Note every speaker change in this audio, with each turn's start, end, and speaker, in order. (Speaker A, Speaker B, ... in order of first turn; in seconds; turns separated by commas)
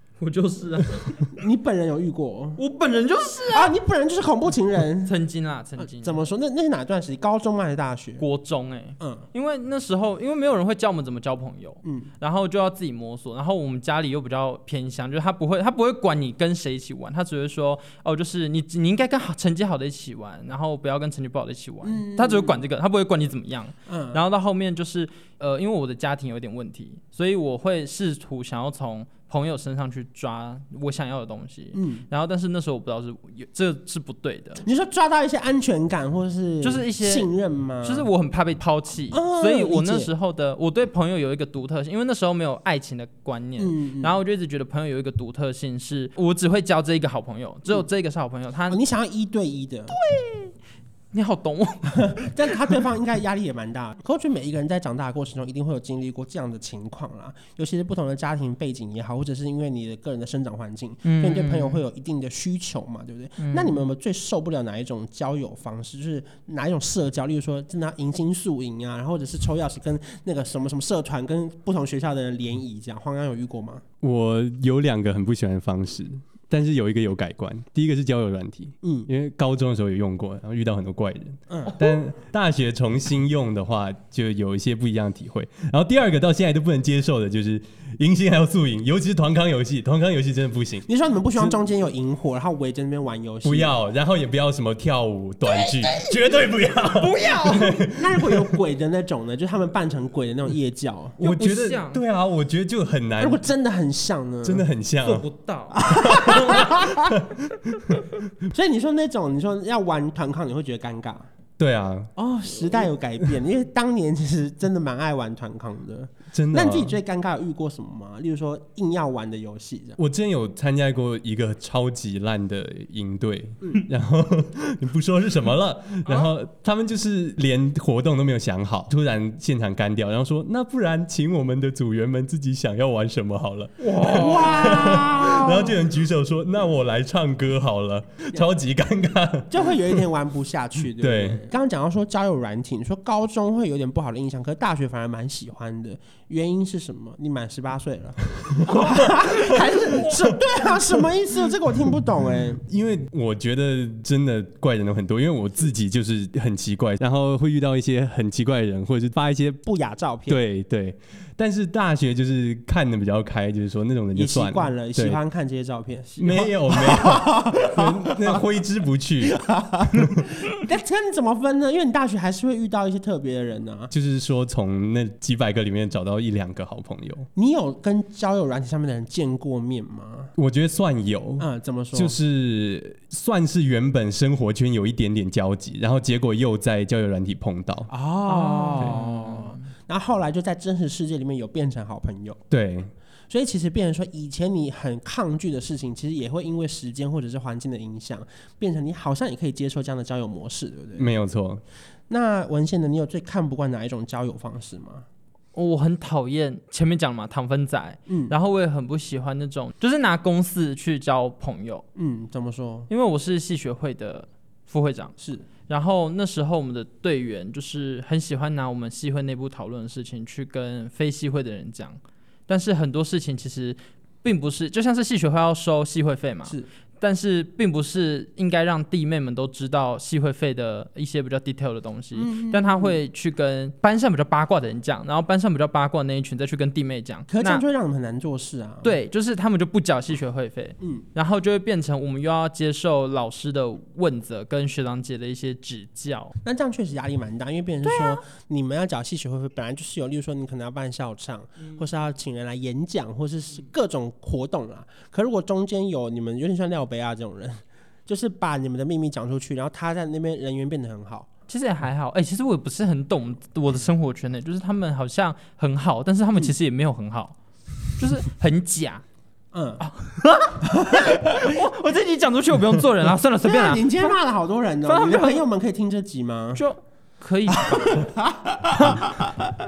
Speaker A: 0.2-1.2, Speaker B: 1.3-2.6, Speaker A: 2.6-3.7, Speaker B: 3.5-5.2, Speaker A: 5.0-6.2, Speaker B: 5.8-8.2, Speaker A: 8.2-34.6, Speaker B: 9.0-9.2, Speaker B: 11.8-12.1, Speaker B: 21.8-22.6, Speaker B: 23.9-24.2, Speaker B: 31.7-32.1, Speaker B: 34.6-38.1, Speaker A: 36.6-37.3, Speaker A: 37.8-48.8, Speaker B: 39.1-40.1, Speaker B: 43.6-44.2, Speaker B: 48.7-50.0, Speaker A: 49.9-50.5, Speaker A: 51.1-52.7, Speaker B: 51.9-73.8, Speaker A: 61.0-61.8, Speaker A: 63.4-63.8, Speaker C: 74.0-91.6, Speaker B: 78.8-79.1, Speaker B: 81.5-82.0, Speaker B: 90.8-93.7, Speaker C: 93.4-98.5, Speaker A: 95.7-96.2, Speaker A: 96.8-97.8, Speaker B: 97.9-101.2, Speaker C: 101.2-103.4, Speaker A: 101.2-102.0, Speaker B: 103.2-104.7, Speaker C: 104.4-105.2, Speaker A: 105.0-106.6, Speaker B: 105.8-107.2, Speaker C: 106.3-107.9, Speaker B: 108.5-111.3, Speaker C: 111.6-112.1, Speaker B: 112.2-120.0, Speaker C: 116.3-117.0, Speaker C: 120.0-140.0, Speaker A: 133.8-135.1, Speaker B: 134.0-135.8, Speaker B: 139.5-152.6, Speaker C: 141.0-141.4, Speaker C: 152.6-159.6, Speaker B: 159.6-160.4, Speaker C: 160.3-165.2, Speaker B: 164.1-168.4, Speaker C: 166.2-169.4, Speaker B: 169.2-173.9, Speaker C: 173.9-177.3, Speaker B: 177.3-180.3, Speaker C: 180.4-187.9, Speaker B: 181.4-182.2, Speaker B: 187.9-192.4, Speaker A: 188.3-189.7, Speaker C: 192.5-192.9, Speaker B: 193.3-201.1, Speaker C: 200.9-201.6, Speaker B: 202.1-205.0, Speaker A: 205.5-211.8, Speaker B: 208.1-208.3, Speaker B: 211.9-212.9, Speaker A: 212.9-215.1, Speaker B: 215.2-215.5, Speaker A: 215.6-237.6, Speaker B: 232.1-233.0, Speaker B: 237.3-238.9, Speaker A: 238.8-246.3, Speaker B: 240.8-241.1, Speaker B: 246.4-261.3, Speaker A: 247.8-248.2, Speaker A: 261.5-267.4, Speaker A: 267.9-269.0, Speaker B: 269.5-269.8, Speaker A: 269.8-274.2, Speaker B: 270.7-271.1, Speaker B: 273.4-276.6, Speaker A: 274.8-275.4, Speaker A: 276.5-278.0, Speaker B: 277.5-279.4